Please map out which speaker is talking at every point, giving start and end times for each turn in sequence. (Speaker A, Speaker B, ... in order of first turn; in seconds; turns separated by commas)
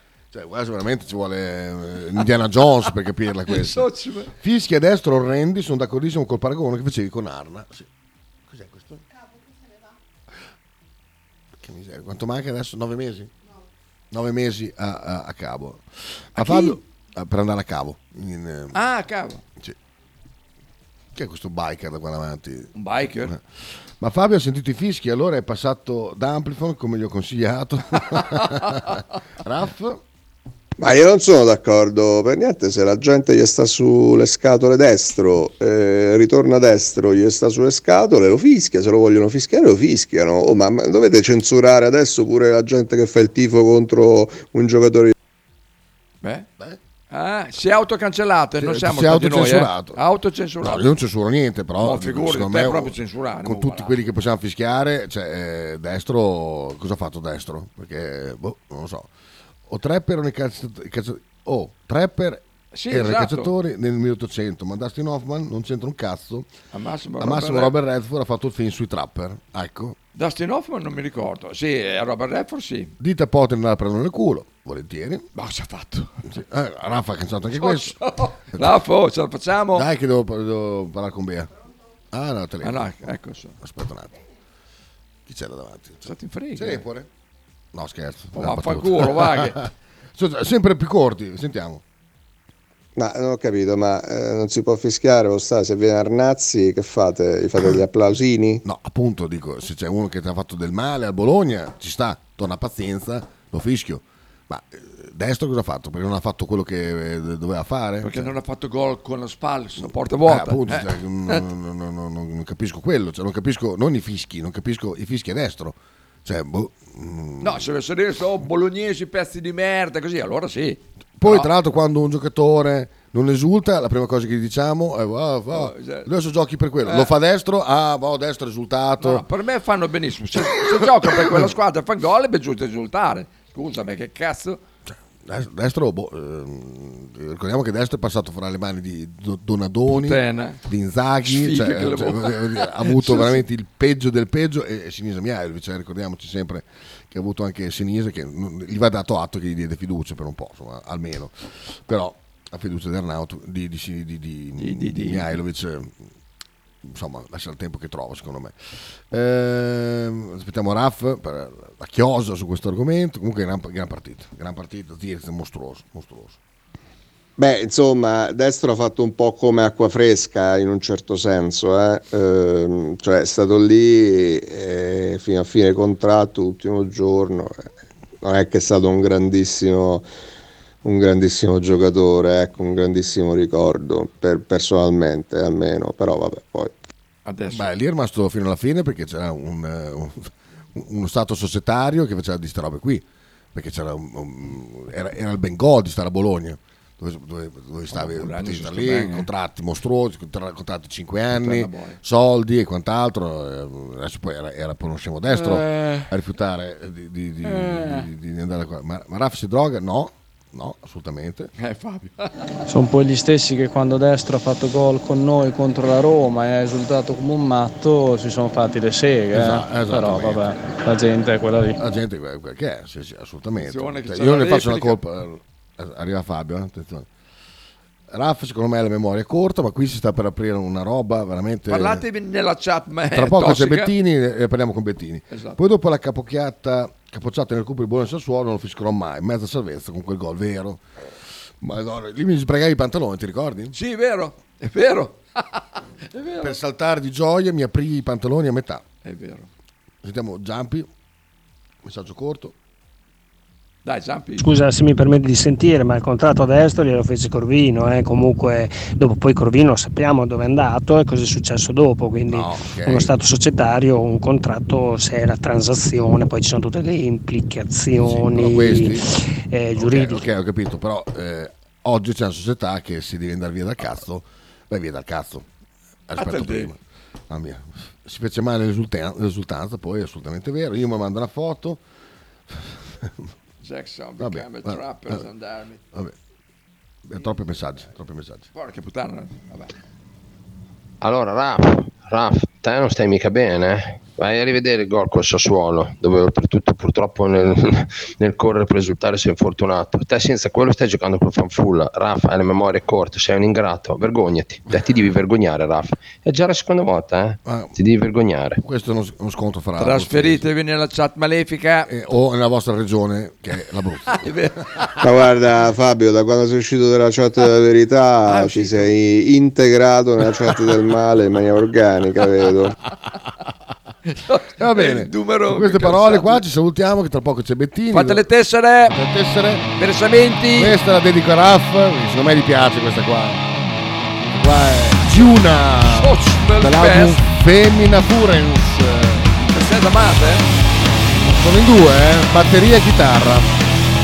Speaker A: 0.3-7.9, Speaker B: 3.5-4.3, Speaker A: 8.5-9.0, Speaker A: 11.6-13.3, Speaker A: 14.1-18.8, Speaker B: 16.4-16.8, Speaker B: 18.7-19.4, Speaker A: 21.1-23.4, Speaker B: 22.7-23.3, Speaker A: 24.0-30.0, Speaker C: 30.8-45.1, Speaker B: 46.2-46.5, Speaker B: 47.1-50.8, Speaker A: 48.6-50.0, Speaker A: 50.6-59.1, Speaker B: 51.8-54.0, Speaker A: 59.7-66.5, Speaker B: 62.7-63.5, Speaker B: 66.7-67.7, Speaker A: 67.2-70.0, Speaker B: 70.2-72.9, Speaker A: 73.0-75.2, Speaker B: 75.3-76.1, Speaker A: 76.3-78.0, Speaker B: 77.6-79.8, Speaker A: 79.7-81.5, Speaker A: 82.1-84.2, Speaker B: 82.6-83.5, Speaker A: 85.2-87.1, Speaker B: 86.0-86.8, Speaker A: 87.7-91.8, Speaker B: 88.3-89.6, Speaker C: 93.0-98.6, Speaker A: 98.6-108.3, Speaker B: 108.0-111.4, Speaker A: 109.8-117.6, Speaker B: 117.4-121.5, Speaker A: 121.2-129.2, Speaker B: 125.5-126.1, Speaker B: 126.8-127.1, Speaker B: 129.0-134.6, Speaker A: 130.8-131.5, Speaker A: 134.9-151.3, Speaker B: 139.9-140.6, Speaker B: 141.2-143.4, Speaker A: 151.8-155.9, Speaker B: 154.6-155.4, Speaker A: 156.8-158.5, Speaker A: 159.1-166.4, Speaker C: 167.4-177.7, Speaker C: 178.2-180.1, Speaker C: 180.8-186.7, Speaker B: 187.2-187.6, Speaker A: 187.5-211.5, Speaker B: 197.9-199.3, Speaker B: 201.3-202.0, Speaker B: 205.3-206.1, Speaker B: 207.4-208.0, Speaker B: 211.6-212.5, Speaker D: 212.7-221.8, Speaker A: 219.3-220.5, Speaker A: 221.8-227.1, Speaker B: 223.6-225.0, Speaker A: 228.1-232.0, Speaker B: 231.7-233.9, Speaker A: 233.1-240.8, Speaker B: 235.3-235.6, Speaker A: 241.6-243.7, Speaker B: 243.7-246.6, Speaker A: 246.4-248.8, Speaker B: 249.0-249.5, Speaker A: 250.0-250.9, Speaker A: 251.8-252.5, Speaker B: 253.8-254.5, Speaker E: 254.4-270.2, Speaker A: 262.3-263.1, Speaker A: 268.0-269.1, Speaker A: 269.7-275.4, Speaker A: 276.1-281.8, Speaker B: 276.2-276.7, Speaker A: 282.5-283.1, Speaker B: 283.6-285.8, Speaker A: 284.2-285.2, Speaker A: 287.1-288.4, Speaker B: 287.1-287.9, Speaker B: 288.5-289.7, Speaker F: 291.0-308.6, Speaker A: 307.4-307.7, Speaker A: 308.6-310.4, Speaker B: 309.8-311.9, Speaker A: 311.9-314.3, Speaker B: 314.2-314.9, Speaker C: 315.0-322.8, Speaker B: 318.2-318.9, Speaker B: 324.1-326.4, Speaker A: 324.6-328.2, Speaker B: 327.9-329.0, Speaker A: 328.9-329.7, Speaker B: 329.8-330.7, Speaker A: 330.6-333.4, Speaker A: 334.2-339.3, Speaker B: 335.8-337.2, Speaker B: 339.4-340.5, Speaker A: 341.3-343.5